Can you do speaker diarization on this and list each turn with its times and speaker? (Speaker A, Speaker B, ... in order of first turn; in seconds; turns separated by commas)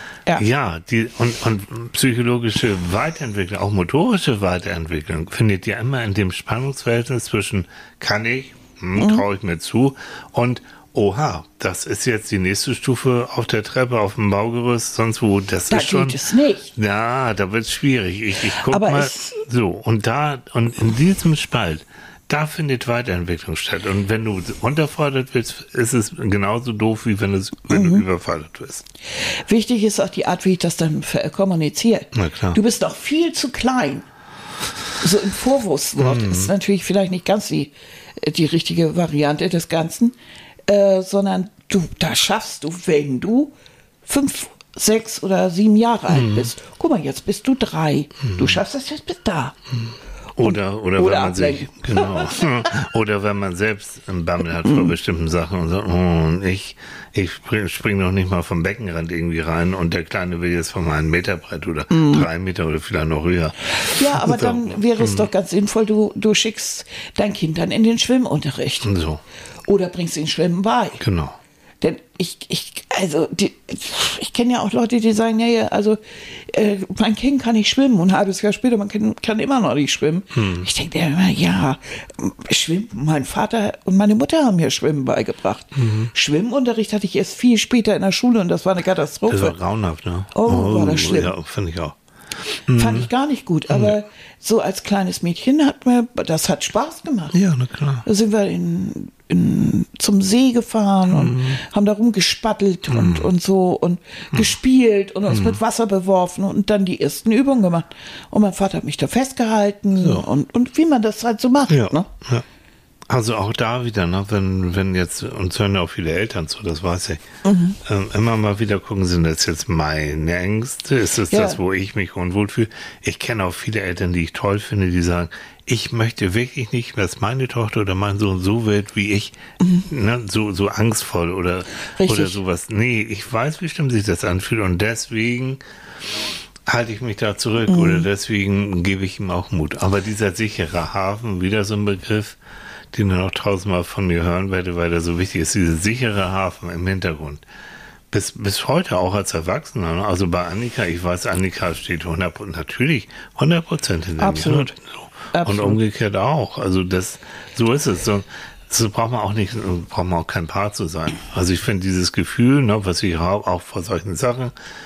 Speaker A: 0.3-16.2, Speaker B: 9.0-9.2, Speaker B: 15.7-16.7, Speaker A: 16.8-28.9, Speaker B: 18.5-19.4, Speaker B: 27.7-28.1, Speaker B: 29.1-34.1, Speaker A: 32.1-32.6, Speaker B: 35.0-40.1, Speaker A: 36.0-36.5, Speaker B: 40.7-43.5, Speaker B: 44.1-49.6, Speaker A: 46.1-46.5, Speaker A: 48.2-48.6, Speaker A: 49.8-65.3, Speaker B: 50.4-52.7, Speaker B: 54.6-54.9, Speaker B: 61.9-62.3, Speaker B: 63.7-68.9, Speaker A: 68.8-69.2, Speaker B: 69.7-71.0, Speaker A: 71.0-71.4, Speaker B: 71.8-89.5, Speaker A: 80.3-80.7, Speaker A: 85.8-86.1, Speaker A: 89.3-92.0, Speaker B: 90.3-91.3, Speaker A: 92.7-93.1, Speaker B: 92.8-97.4, Speaker A: 93.7-94.0, Speaker A: 97.3-98.0, Speaker B: 98.0-112.1, Speaker A: 101.1-101.6, Speaker A: 102.9-103.3, Speaker A: 105.3-105.6, Speaker A: 109.9-110.3, Speaker A: 111.7-112.5, Speaker A: 113.1-117.2, Speaker B: 117.4-117.8, Speaker A: 117.8-135.6, Speaker B: 121.3-121.6, Speaker B: 129.6-129.9, Speaker B: 131.9-132.4, Speaker A: 136.7-142.4, Speaker B: 137.7-138.1, Speaker A: 142.9-147.4, Speaker A: 148.1-164.5, Speaker B: 154.2-154.7, Speaker B: 155.3-155.8